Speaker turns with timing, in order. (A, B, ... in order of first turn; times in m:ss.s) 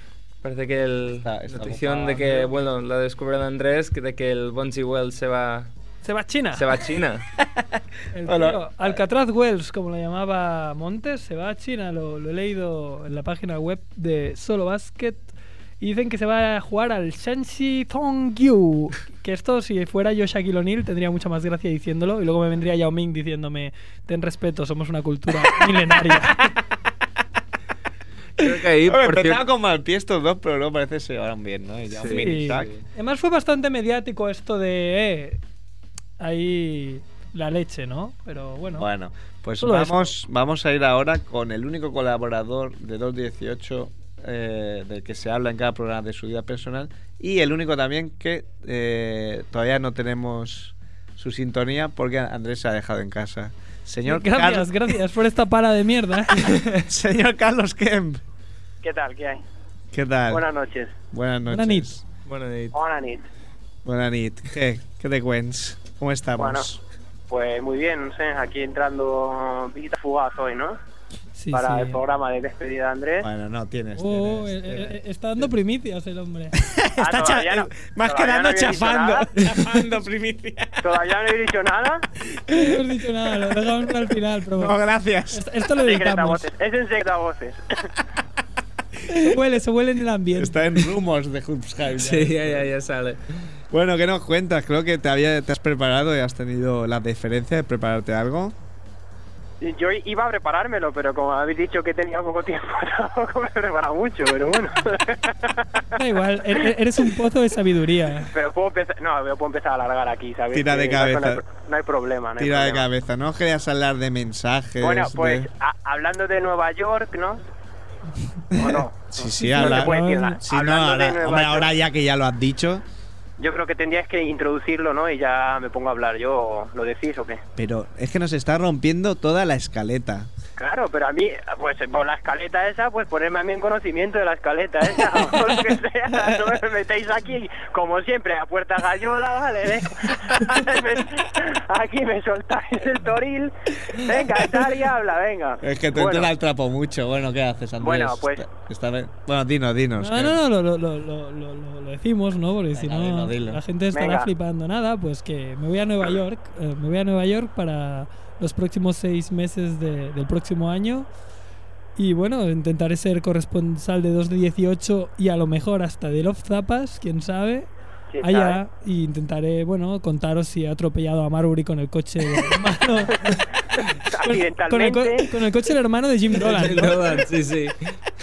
0:00.4-0:05.7 A
0:01.1-0:02.5 B
0:06.0-0:06.6 C
0:06.5-0:07.3 A
0:07.4-0:09.0 B
0:08.1-0:26.5 C
0:25.4-0:26.5 B
0:28.4-0:29.4 A
0:28.4-0:32.7 B
0:31.9-0:32.9 A
0:32.1-0:35.4 C
0:36.2-0:38.9 C
0:38.7-0:55.0 B
0:39.6-0:40.1 C
0:54.0-0:56.6 C
0:56.7-0:58.2 B
0:58.8-0:59.4 D
0:59.9-1:00.4 B
1:00.3-1:01.0 D
1:01.1-1:02.0 B
1:01.5-1:01.9 C
1:02.2-1:02.8 A
1:02.7-1:03.2 D
1:03.8-1:06.8 B
1:06.4-1:06.7 D
1:07.3-1:10.8 D
1:11.4-1:12.0 C
1:11.5-1:13.3 D
1:13.2-1:15.0 B
1:14.0-1:16.6 C
1:16.6-1:21.0 B
1:17.0-1:19.3 D
1:20.8-1:22.1 D
1:22.5-1:22.8 B
1:22.5-1:24.8 C
1:24.6-1:25.5 B
1:25.3-1:26.4 C
1:25.8-1:27.9 D
1:29.1-1:30.9 C
1:29.1-1:29.4 B
1:30.3-1:32.7 B
1:31.9-1:33.5 A
1:33.7-1:38.6 B
1:39.6-1:45.9 D
1:46.0-1:48.3 C
1:48.2-1:52.9 D
1:50.5-1:51.4 B
1:52.4-1:55.5 B
1:54.8-1:57.4 D
1:58.5-2:02.8 B
1:58.5-2:01.7 D
1:59.3-2:00.4 C
2:03.4-2:07.4 D
2:07.6-2:10.3 B
2:10.6-2:26.3 D
2:25.6-2:30.4 B
2:27.8-2:28.4 D
2:30.0-2:41.1 C
2:32.7-2:33.6 B
2:33.9-2:34.3 D
2:42.0-2:47.7 C
2:48.1-2:48.6 D
2:48.2-2:53.5 C
2:54.1-2:55.3 D
2:54.1-2:57.0 C
2:56.4-2:58.0 A